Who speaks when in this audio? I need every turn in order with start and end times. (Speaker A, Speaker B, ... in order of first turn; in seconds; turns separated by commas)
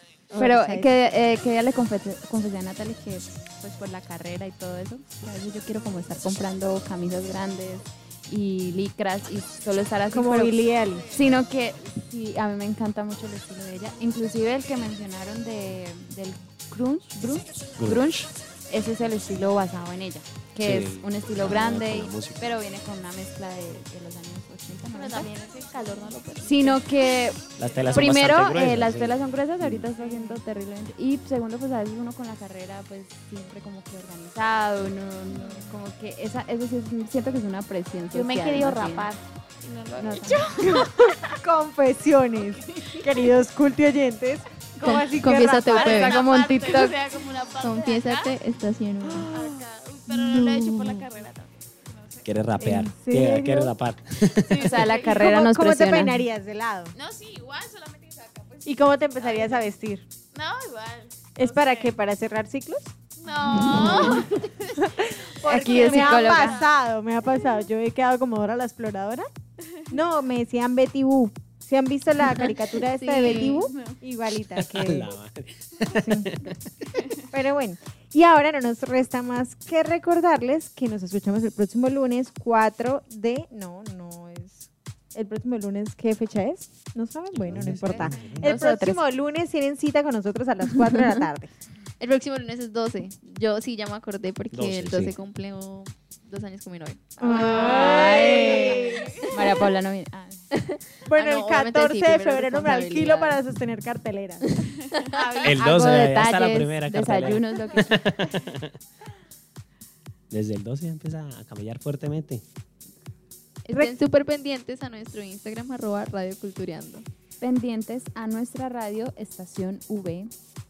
Speaker A: 0.3-0.9, Speaker B: 0.4-10.6, Speaker A: 10.1-11.1, Speaker B: 11.1-25.3, Speaker C: 17.8-18.3, Speaker C: 20.6-22.4, Speaker D: 24.9-27.0, Speaker B: 26.4-27.4, Speaker C: 27.6-29.9, Speaker B: 27.9-39.1, Speaker D: 38.1-40.9, Speaker B: 40.0-40.4, Speaker A: 40.6-46.2, Speaker E: 44.8-47.0, Speaker D: 45.7-48.3, Speaker E: 47.6-49.3, Speaker A: 49.0-51.1, Speaker D: 49.3-52.3, Speaker C: 52.2-54.8, Speaker A: 52.6-53.7, Speaker D: 54.4-55.3, Speaker B: 54.6-56.3, Speaker A: 54.9-56.9, Speaker D: 57.0-59.7, Speaker A: 58.6-60.1, Speaker D: 60.3-62.0, Speaker A: 61.4-62.9, Speaker D: 63.2-66.7, Speaker B: 63.5-64.1, Speaker A: 63.5-64.3, Speaker A: 64.8-69.3, Speaker B: 65.4-66.6, Speaker A: 69.9-75.1, Speaker D: 73.0-74.0, Speaker C: 74.6-77.0, Speaker A: 75.9-76.3, Speaker A: 77.3-91.5, Speaker C: 87.3-88.6, Speaker B: 87.8-89.0, Speaker E: 92.0-99.3, Speaker C: 94.5-95.2, Speaker A: 97.2-99.2, Speaker B: 97.3-98.7, Speaker D: 98.8-99.2, Speaker B: 99.3-100.4, Speaker E: 100.6-103.4, Speaker A: 101.1-104.7, Speaker D: 105.0-105.6, Speaker C: 105.4-108.7, Speaker B: 105.6-107.9, Speaker C: 110.3-112.4, Speaker E: 113.7-117.0, Speaker B: 117.4-120.3